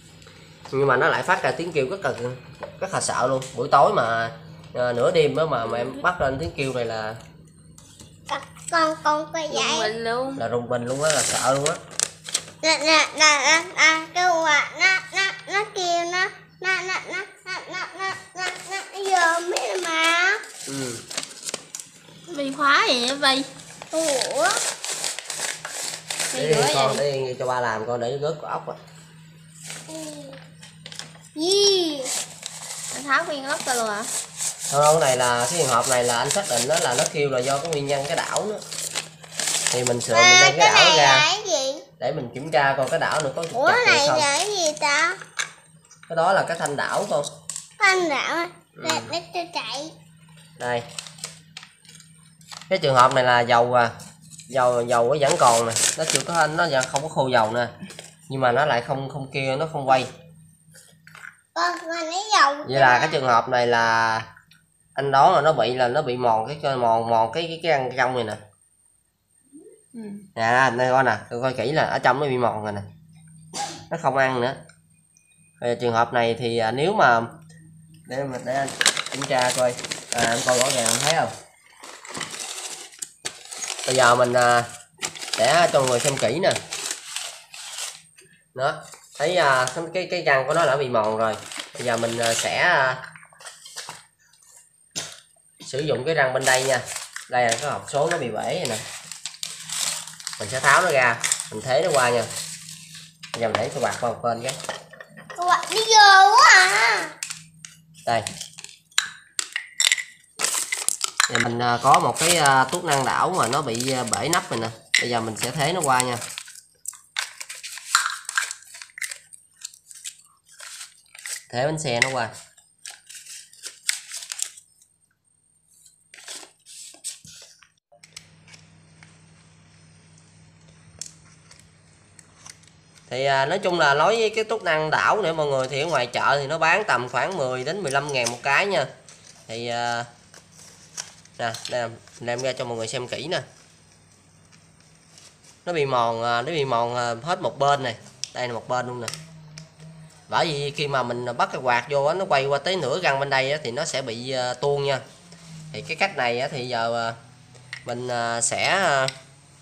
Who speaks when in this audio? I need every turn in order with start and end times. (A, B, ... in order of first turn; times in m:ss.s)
0:00.7-0:07.2 A
0:05.6-0:06.0 B
0:08.3-0:09.9 C
0:09.5-0:10.4 B
0:10.4-0:11.8 A
0:12.6-0:20.4 C
0:20.6-0:21.0 A
0:22.3-0:23.5 B
0:23.9-0:24.6 C
0:26.3-0:27.0 B
0:26.3-0:28.8 A
0:29.9-0:30.4 C
0:31.3-0:32.1 C
0:32.9-0:34.1 B
0:34.7-0:38.6 A
0:39.7-0:41.2 A
0:40.1-0:41.8 C
0:42.0-0:44.3 A
0:43.5-0:45.2 C
0:46.1-0:47.3 A
0:47.8-0:49.9 C
0:48.8-0:49.1 A
0:50.6-0:50.8 A
0:52.7-0:53.9 A
0:54.5-0:57.7 A
0:58.3-1:00.1 A
1:01.5-1:03.2 C
1:02.6-1:04.3 A
1:04.9-1:08.4 A
1:09.9-1:10.2 B
1:10.4-1:12.8 A
1:13.9-1:14.6 A
1:15.6-1:17.3 A
1:18.1-1:21.3 A
1:23.8-1:24.7 A
1:25.4-1:26.6 A
1:28.5-1:33.0 A
1:35.6-1:38.8 A
1:40.4-1:42.3 A
1:43.3-1:44.6 A
1:45.4-1:47.1 C
1:51.3-1:56.2 A
2:01.5-2:02.3 A
2:13.1-2:18.9 A
2:19.5-2:20.1 A
2:21.4-2:23.4 A
2:25.6-2:29.1 A
2:30.3-2:35.0 A
2:35.7-2:37.2 A
2:37.8-2:39.1 A